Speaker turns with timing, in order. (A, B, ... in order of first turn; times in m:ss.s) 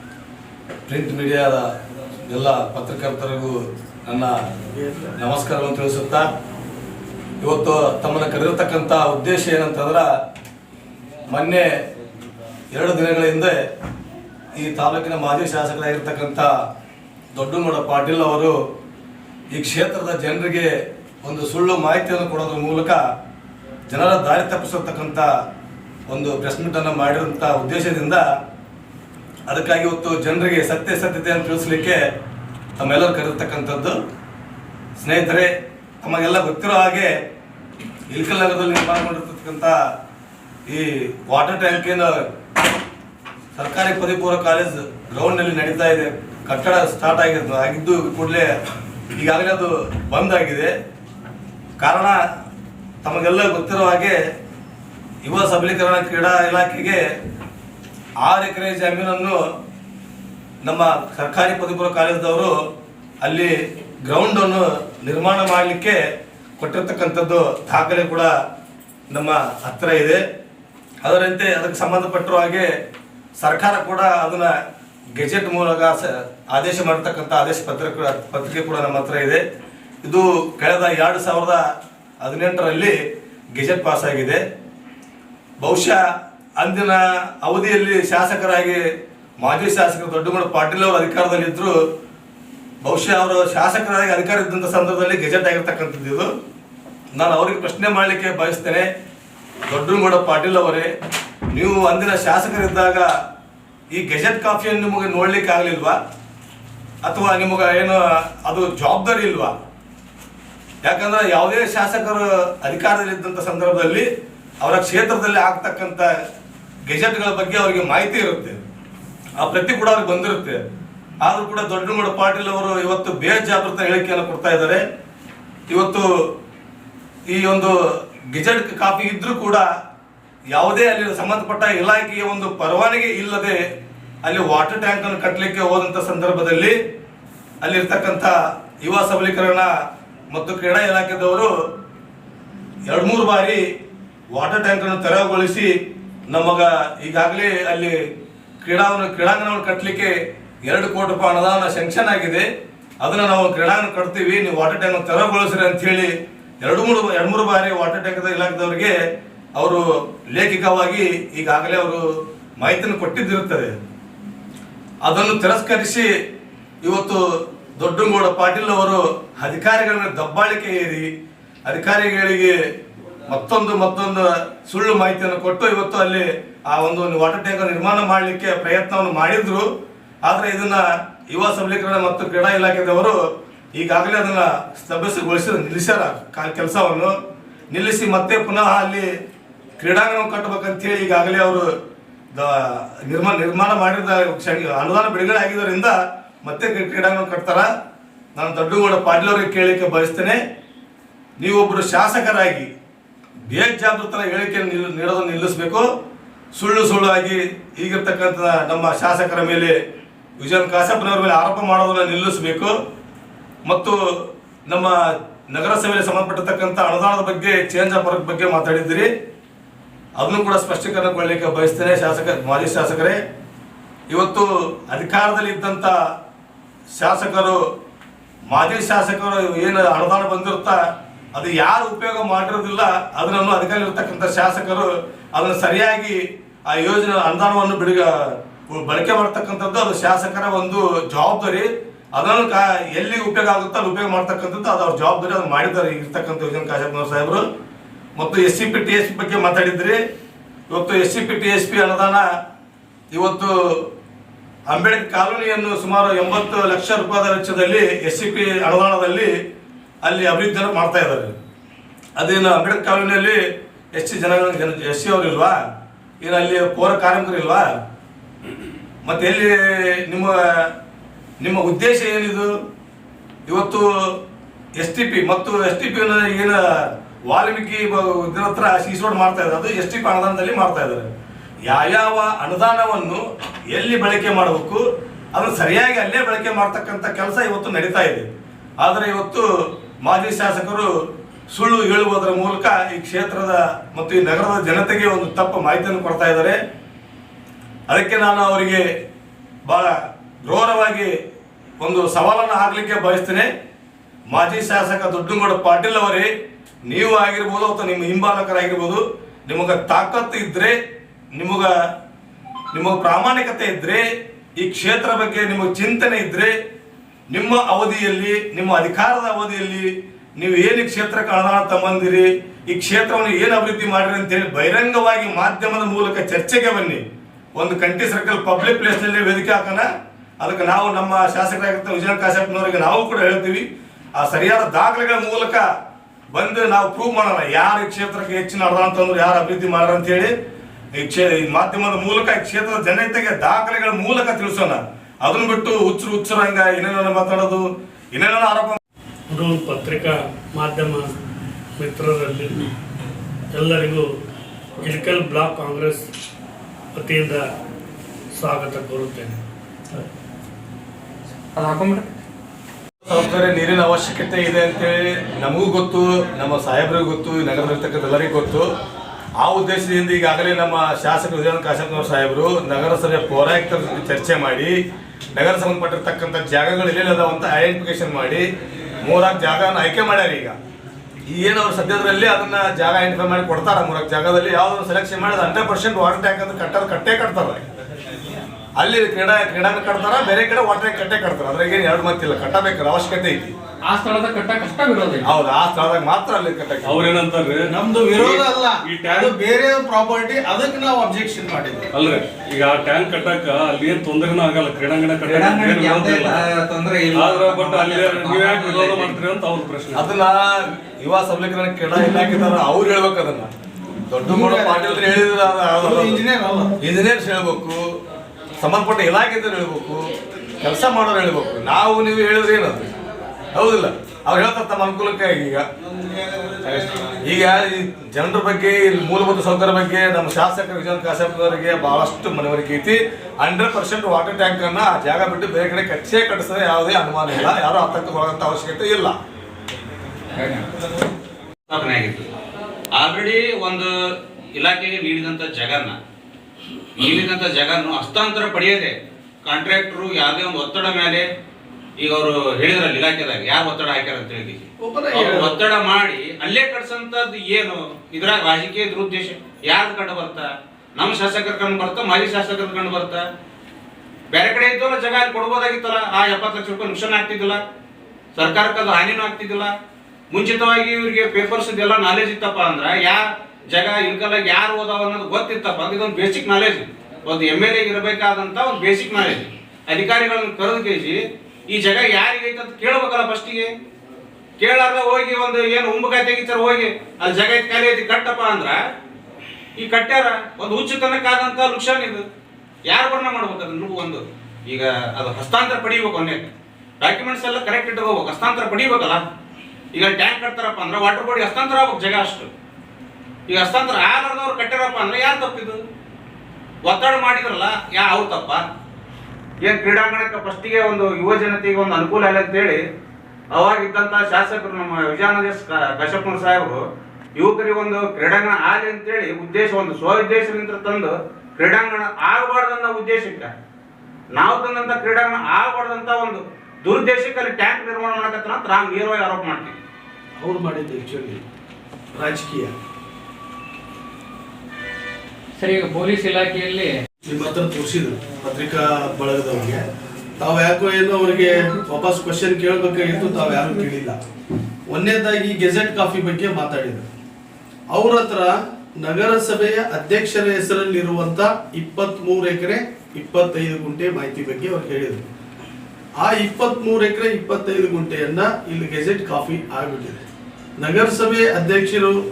0:00.9-0:01.6 A
0:02.3-0:04.5 A
0:04.7-0:05.1 B
0:05.2-0:06.3 A
0:07.4-0:10.1 A
0:11.3-0:11.7 A
0:12.7-0:13.6 A
0:14.6-0:16.5 A
0:17.3-0:18.5 A
0:19.5-0:20.7 A
0:21.2-0:23.0 A
0:23.9-0:25.3 A
0:26.1-0:28.2 A
0:29.5-0:32.0 A
0:32.8-0:34.0 A
0:35.0-0:37.1 A
0:38.1-0:39.8 A
0:40.7-0:42.3 A
0:43.5-0:48.5 A
0:49.1-0:50.7 A
0:51.8-0:52.2 A
0:53.0-0:54.2 A
0:55.2-0:57.0 A
0:58.2-0:59.4 A
1:00.6-1:02.5 A
1:03.2-1:03.5 A
1:04.0-1:06.0 A
1:06.6-1:08.3 A
1:09.1-1:10.2 A
1:11.0-1:12.7 A
1:13.4-1:14.5 A
1:15.2-1:19.4 A
1:20.0-1:21.6 A
1:22.2-1:23.0 A
1:23.6-1:24.4 A
1:25.6-1:26.0 A
1:26.6-1:28.8 A
1:29.4-1:31.8 A
1:32.8-1:36.3 A
1:37.1-1:38.9 A
1:39.7-1:40.9 A
1:41.5-1:43.1 A
1:43.9-1:46.0 A
1:47.0-1:49.5 A
1:50.8-1:54.1 A
1:54.6-1:56.1 A
1:56.9-1:58.6 A
1:59.4-2:00.6 A
2:01.2-2:04.8 A
2:05.7-2:06.1 A
2:07.3-2:07.7 A
2:08.3-2:09.6 A
2:10.5-2:13.6 A
2:14.2-2:16.8 A
2:17.6-2:19.7 A
2:20.3-2:21.5 A
2:22.9-2:23.6 A
2:24.3-2:25.7 A
2:26.3-2:28.0 A
2:28.6-2:30.1 A
2:30.7-2:32.5 A
2:33.0-2:38.9 A
2:39.6-2:42.0 A
2:42.6-2:43.7 A
2:45.0-2:46.1 A
2:46.8-2:47.2 A
2:47.8-2:51.1 A
2:51.6-2:52.5 A
2:53.2-2:59.7 A
3:00.2-3:03.2 A
3:03.7-3:07.1 A
3:07.7-3:09.1 A
3:09.8-3:11.7 A
3:12.3-3:17.7 A
3:18.4-3:20.4 A
3:21.4-3:22.7 A
3:23.5-3:25.8 A
3:26.5-3:29.8 A
3:30.4-3:32.7 A
3:33.6-3:34.0 A
3:34.7-3:35.0 A
3:35.5-3:39.1 A
3:40.2-3:43.2 A
3:44.1-3:45.9 A
3:46.9-3:47.6 A
3:48.5-3:50.8 A
3:51.3-4:07.4 A
4:08.2-4:10.0 A
4:10.7-4:12.2 A
4:13.1-4:13.9 A
4:14.7-4:19.3 A
4:20.0-4:21.3 A
4:22.2-4:23.4 A
4:23.9-4:25.6 A
4:26.2-4:27.7 A
4:29.0-4:30.7 A
4:31.4-4:32.5 A
4:33.5-4:34.2 A
4:34.8-4:36.6 A
4:37.2-4:41.1 A
4:41.7-4:48.2 A
4:48.8-4:49.4 A
4:50.0-4:50.9 A
4:51.5-4:56.6 A
4:57.9-4:58.8 A
4:59.6-5:01.1 A
5:01.8-5:03.5 A
5:04.3-5:06.3 A
5:06.9-5:10.8 A
5:11.3-5:11.7 A
5:12.7-5:16.5 A
5:17.3-5:27.0 A
5:27.6-5:29.8 A
5:30.4-5:33.6 A
5:34.2-5:35.6 A
5:36.3-5:40.3 A
5:40.9-5:48.8 A
5:49.3-5:51.1 C
5:51.8-5:52.6 C
5:53.5-5:54.1 C
5:54.8-5:56.0 C
5:57.0-5:57.4 C
5:58.4-5:59.4 C
6:01.6-6:02.1 C
6:03.0-6:08.7 A
6:09.4-6:14.8 A
6:15.3-6:18.5 A
6:19.0-6:20.5 A
6:21.3-6:27.6 A
6:28.8-6:33.5 A
6:33.9-6:35.2 D
6:35.2-6:37.1 A
6:36.8-6:39.3 E
6:37.7-6:41.9 B
6:41.9-6:46.5 E
6:45.2-6:49.2 D
6:47.1-6:50.0 E
6:49.9-6:53.5 A
6:54.1-6:56.2 A
6:54.3-6:54.9 B
6:55.8-6:56.8 B
6:56.8-6:57.8 A
6:58.6-7:00.0 A
7:00.6-7:02.9 A
7:03.5-7:05.6 A
7:06.6-7:19.2 A
7:20.4-7:20.6 F
7:21.7-7:22.2 F
7:22.9-7:23.9 F
7:24.5-7:25.9 F
7:27.0-7:28.9 F
7:29.4-7:31.2 F
7:32.0-7:40.4 F
7:34.8-7:35.6 B
7:41.0-7:43.2 F
7:44.3-7:47.6 F
7:48.3-7:49.7 F
7:50.3-8:01.2 F
8:01.7-8:03.7 F
8:04.6-8:08.8 F
8:09.8-8:12.2 F
8:12.9-8:19.2 F
8:19.9-8:22.5 F
8:23.5-8:25.8 F
8:26.8-8:28.6 F
8:29.6-8:32.8 F
8:33.5-8:36.8 F
8:37.4-8:43.5 F
8:44.4-8:49.8 F
8:50.4-8:51.4 B
8:52.1-8:52.7 B
8:55.6-8:56.9 D
8:57.3-8:59.8 B
9:00.4-9:04.2 B
9:04.9-9:07.0 B
9:07.9-9:15.2 B
9:16.2-9:20.2 B
9:20.8-9:22.2 B